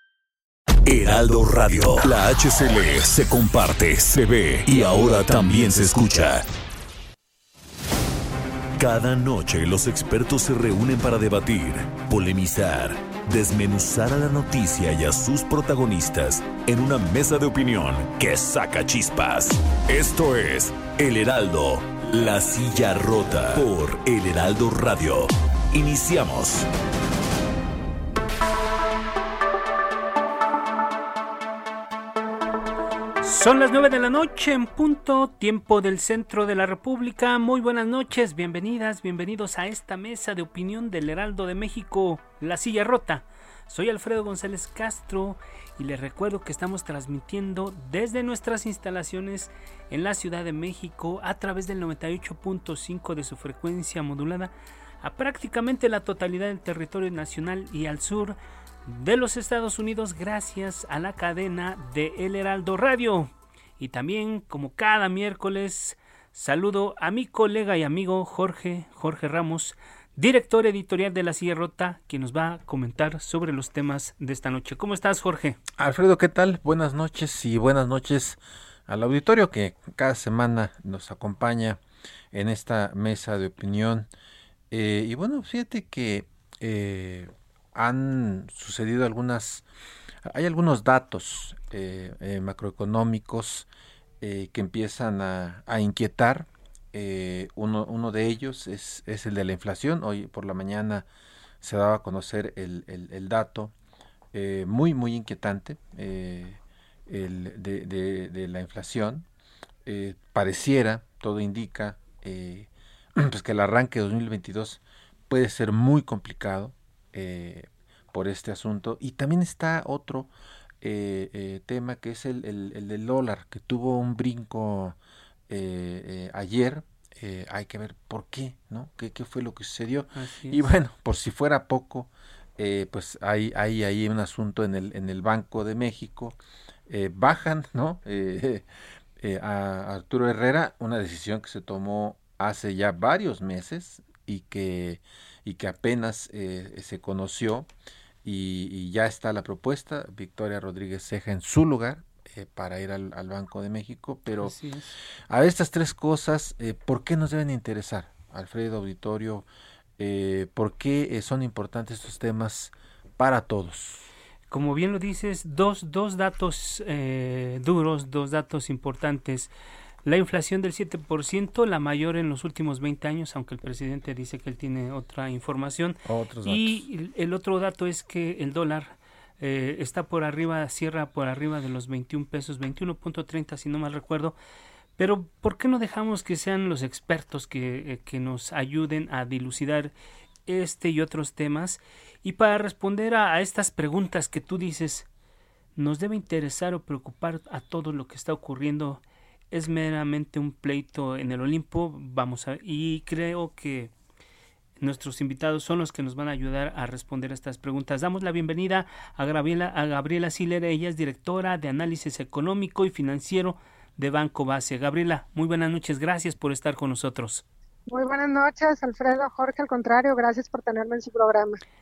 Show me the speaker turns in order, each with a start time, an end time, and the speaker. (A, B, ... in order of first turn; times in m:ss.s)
0:00.8-0:06.4 A
0:08.8-0:26.7 A
0:33.2-1:15.6 B
1:15.8-1:21.8 C
1:22.3-1:24.1 C
1:24.7-1:29.6 C
1:30.2-1:33.7 C
1:34.2-1:41.0 C
1:41.6-1:43.7 C
1:44.3-1:49.2 C
1:49.8-2:00.3 C
2:00.8-2:05.0 C
2:05.5-2:16.4 C
2:10.1-2:10.6 B
2:16.9-2:18.6 C
2:19.2-2:27.7 C
2:28.2-2:34.5 C
2:34.4-2:34.9 B
2:35.3-2:39.4 C
2:40.0-2:44.1 C
2:44.5-2:49.5 B
2:50.0-3:04.3 B
2:56.0-2:56.8 C
3:05.0-3:09.9 B
3:10.5-3:15.1 B
3:15.8-3:23.9 B
3:24.8-3:37.4 B
3:37.9-3:41.6 D